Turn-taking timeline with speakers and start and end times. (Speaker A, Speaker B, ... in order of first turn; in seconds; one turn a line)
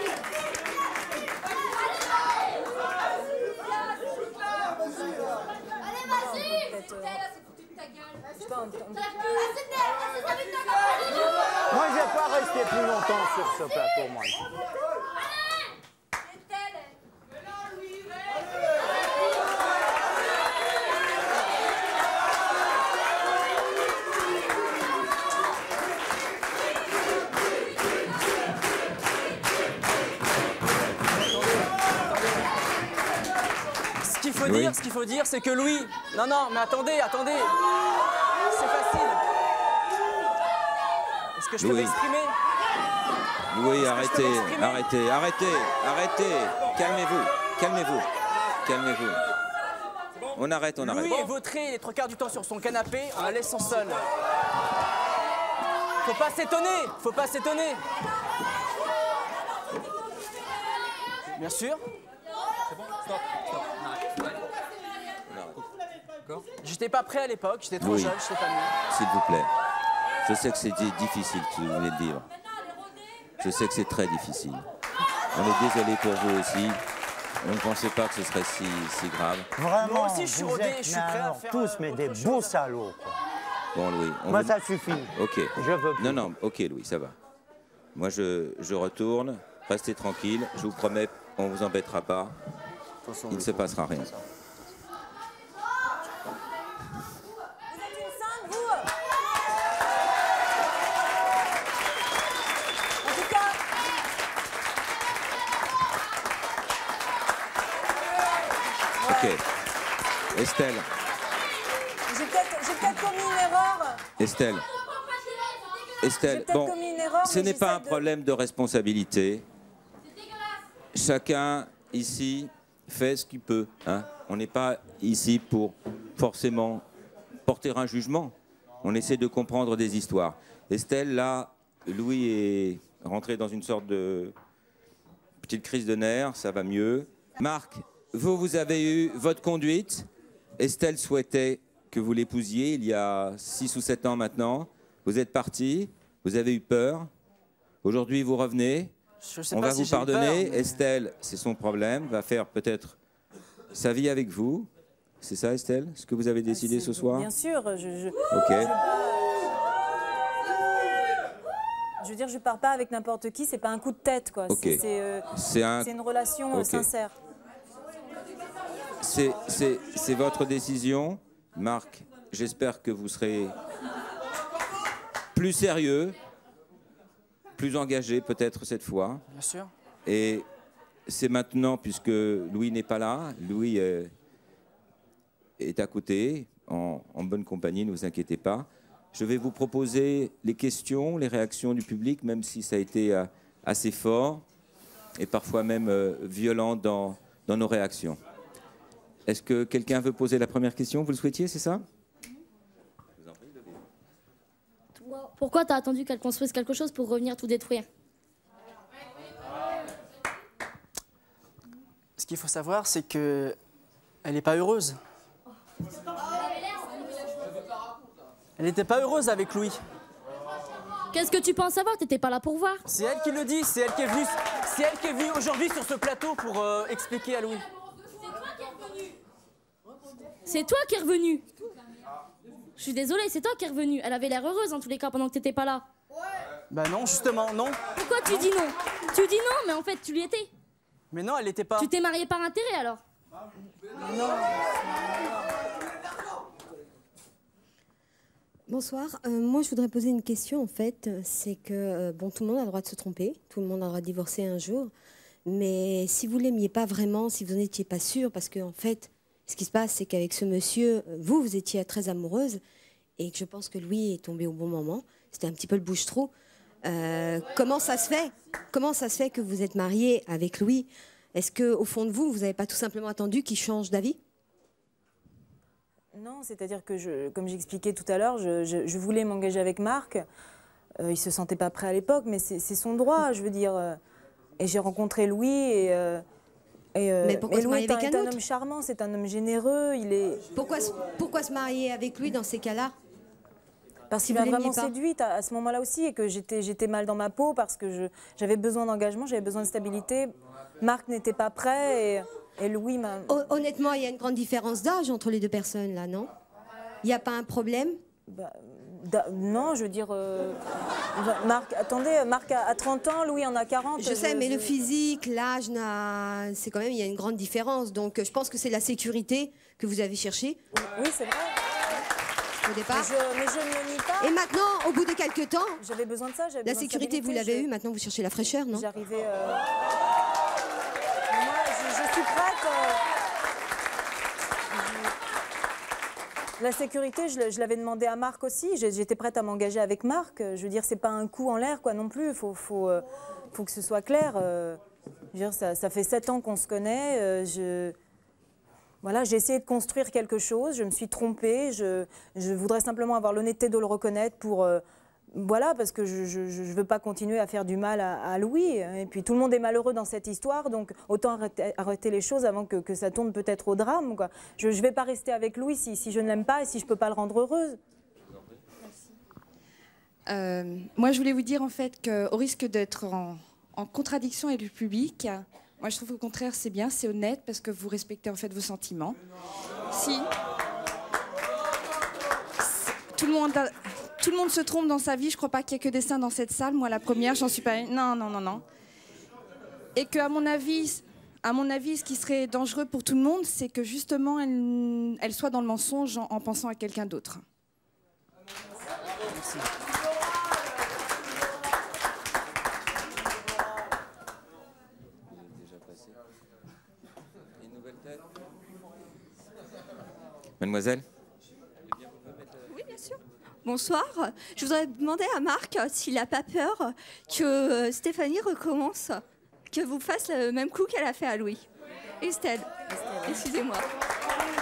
Speaker A: 5.9-7.3
Speaker A: 8.3-9.3
Speaker B: 11.7-14.4
Speaker C: 34.0-37.5
Speaker D: 34.4-34.8
Speaker C: 38.5-39.2
Speaker C: 41.4-42.3
Speaker D: 41.6-42.0
Speaker D: 43.5-48.1
Speaker C: 43.8-44.8
Speaker D: 48.6-49.2
Speaker D: 50.3-51.3
Speaker C: 50.8-54.0
Speaker C: 56.0-57.8
Speaker C: 61.4-61.8
Speaker D: 65.3-65.6
Speaker C: 66.6-68.7
Speaker D: 67.8-68.2
Speaker D: 68.9-69.5
Speaker D: 70.2-72.3
Speaker D: 73.4-74.6
Speaker D: 75.3-76.8
Speaker D: 77.4-79.5
Speaker B: 79.6-83.2
Speaker C: 79.8-82.5
Speaker D: 83.7-84.5
Speaker B: 84.3-86.2
Speaker D: 85.1-87.1
Speaker D: 87.9-92.3
Speaker D: 93.3-94.1
Speaker A: 97.7-98.9
Speaker A: 103.0-103.6
Speaker A: 109.0-109.3
Speaker D: 109.0-109.4
Speaker D: 110.3-110.9
Speaker A: 112.1-114.0
Speaker D: 114.2-114.7
Speaker D: 116.0-119.5
Speaker A: 116.2-118.0
Speaker D: 120.9-126.8
Speaker D: 127.5-134.3
Speaker D: 135.4-147.1
Speaker D: 147.8-148.9
Speaker C: 149.2-150.8
Speaker D: 149.5-153.0
Speaker D: 153.7-154.7
Speaker D: 155.2-157.3
Speaker A: 156.5-159.3
Speaker D: 158.3-158.7
Speaker A: 162.0-165.3
Speaker D: 164.5-164.8
Speaker D: 165.3-165.9
Speaker A: 165.8-167.2
Speaker D: 166.5-166.8
Speaker D: 169.0-173.5
Speaker D: 175.3-176.2
Speaker D: 177.6-179.2
Speaker C: 179.3-179.7
Speaker D: 180.1-180.4
Speaker D: 181.1-184.1
Speaker D: 185.6-194.4
Speaker D: 195.2-198.2
Speaker D: 199.3-201.8
Speaker D: 203.2-203.8
Speaker E: 204.9-207.9
Speaker C: 212.2-213.6
Speaker C: 214.2-215.0
Speaker C: 218.6-219.8
Speaker E: 221.1-222.8
Speaker C: 222.9-227.6
Speaker E: 230.4-231.4
Speaker E: 232.8-235.8
Speaker C: 236.7-238.5
Speaker E: 237.9-240.5
Speaker C: 241.1-241.9
Speaker E: 241.8-243.0
Speaker F: 248.7-254.9
Speaker F: 255.4-262.6
Speaker F: 263.2-266.3
Speaker F: 266.8-274.2
Speaker A: 276.1-280.2
Speaker A: 281.0-284.0
Speaker A: 284.6-286.2
Speaker A: 286.9-290.4
Speaker F: 287.2-288.4
Speaker F: 290.5-292.9
Speaker A: 294.1-303.5
Speaker F: 294.2-294.9
Speaker F: 303.3-306.3
Speaker F: 307.0-308.0
Speaker A: 308.3-310.6
Speaker A: 311.1-314.7
Speaker F: 314.0-320.6
Speaker A: 320.8-321.6
Speaker F: 322.6-323.1
Speaker A: 322.9-324.3
Speaker F: 324.2-325.8
Speaker A: 325.8-327.7
Speaker F: 326.6-328.9
Speaker A: 328.7-329.6
Speaker A: 331.3-333.0
Speaker A: 334.8-335.1
Speaker A: 336.6-344.8
Speaker A: 345.3-347.9
Speaker A: 349.0-354.8
Speaker A: 355.3-367.8
Speaker G: 368.8-369.1
Speaker G: 370.2-379.2
Speaker G: 379.9-380.3
Speaker G: 382.6-388.6
Speaker G: 389.9-397.4
Speaker C: 399.3-399.6
Speaker D: 405.3-406.1
Speaker D: 407.6-408.2
Speaker D: 410.6-411.0
Speaker H: 412.7-421.6
Speaker H: 422.2-423.9